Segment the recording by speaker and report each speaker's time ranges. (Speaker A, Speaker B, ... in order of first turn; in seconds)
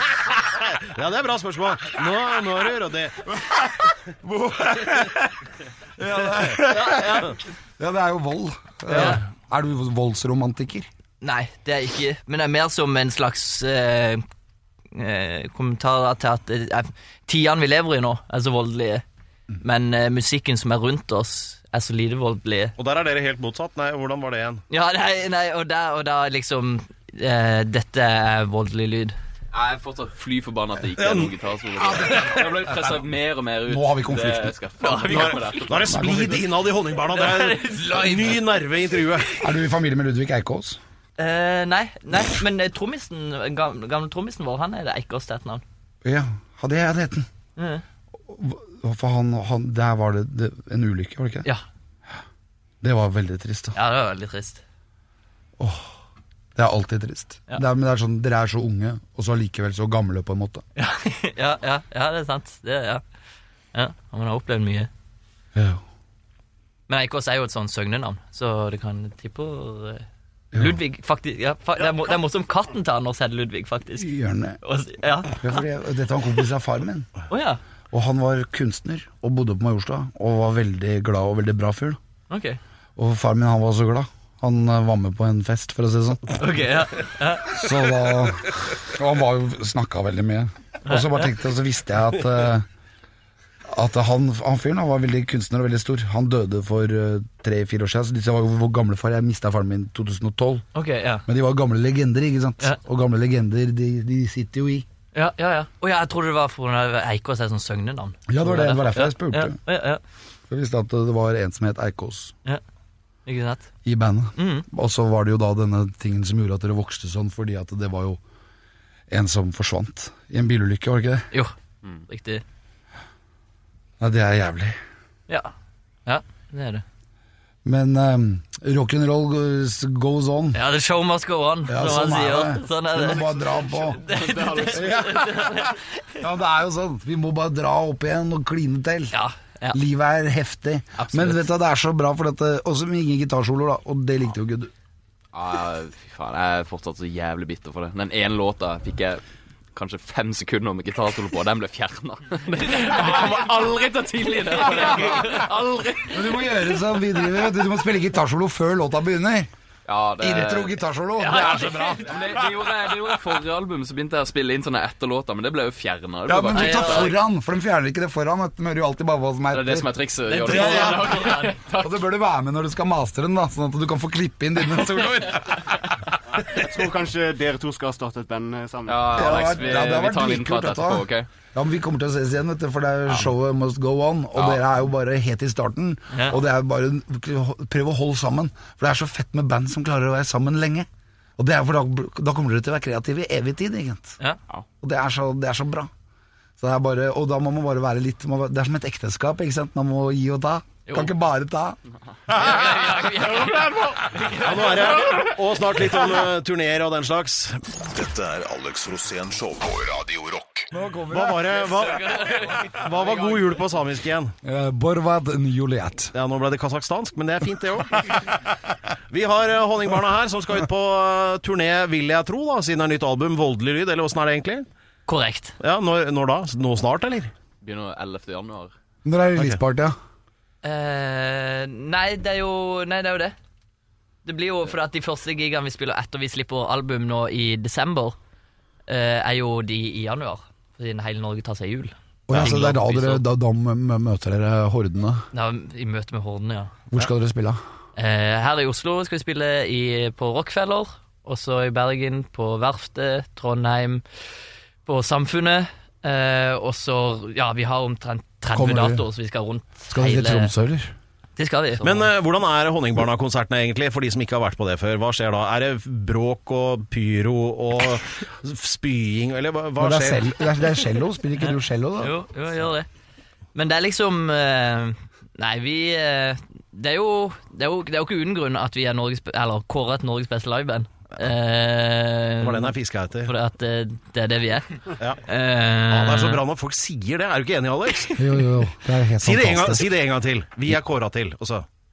Speaker A: 0.5-3.3, 22.8-24.6, 30.9-31.3, 35.1-39.3, 204.4-207.6, 211.1-214.3, 216.1-218.5, 219.1-224.7, 225.6-227.3, 242.3-242.6, 261.8-270.4, 282.4-283.3, 285.9-288.2, 289.2-291.7
Speaker B: 3.3-5.5, 6.0-10.9, 32.0-33.0, 33.7-34.6, 35.9-36.5, 39.4-40.8, 46.0-47.3, 48.2-51.5, 52.8-53.8, 55.6-55.9, 56.5-60.6, 65.5-65.8, 70.5-70.8, 74.0-74.6, 75.3-77.1, 77.9-82.0, 83.0-86.4, 87.4-92.7, 93.7-100.7, 101.3-104.9, 108.3-109.6, 110.5-112.3, 113.8-118.2, 119.1-121.3, 124.0-124.8, 127.7-130.6, 131.7-134.0, 134.6-135.6, 136.2-139.2, 139.7-144.7, 154.9-155.3, 156.1-159.5, 160.2-162.6, 166.3-175.9, 179.2-190.9, 191.4-194.2, 194.8-195.9, 196.6-201.8, 210.7-211.7, 214.4-216.1, 229.0-230.0, 242.3-245.3, 246.9-247.6, 258.5-259.1, 259.9-260.9, 269.8-272.1, 288.2-289.9
Speaker C: 6.7-7.3, 8.9-9.2, 11.2-14.2, 14.9-19.0, 19.6-22.8, 24.7-29.2, 34.8-35.8, 37.1-38.4, 41.2-45.6, 47.6-47.8, 53.8-54.6, 60.8-63.0, 63.7-64.9, 66.9-75.6, 77.3-77.6, 82.3-82.6, 86.4-87.7, 90.9-91.3, 100.8-101.3, 105.1-110.0, 113.3-113.7, 114.4-114.7, 122.1-122.4, 126.1-126.8, 130.5-135.9, 139.1-139.8, 141.0-141.5, 161.2-162.0, 166.5-167.2, 170.3-171.6, 186.1-186.4, 202.3-205.3, 211.6-212.8, 225.1-225.6, 230.6-233.4, 234.2-238.2, 238.9-243.2, 245.3-246.8, 248.0-254.0, 254.8-260.5, 261.4-262.1, 271.4-272.9, 273.6-286.4
Speaker D: 29.5-36.0, 134.1-135.1, 145.3-149.2, 149.7-156.3, 159.9-167.2, 169.5-172.0, 178.9-181.3, 203.4-204.0, 213.0-213.6, 227.6-228.7
Speaker E: 176.4-179.5
Speaker F: 207.9-210.7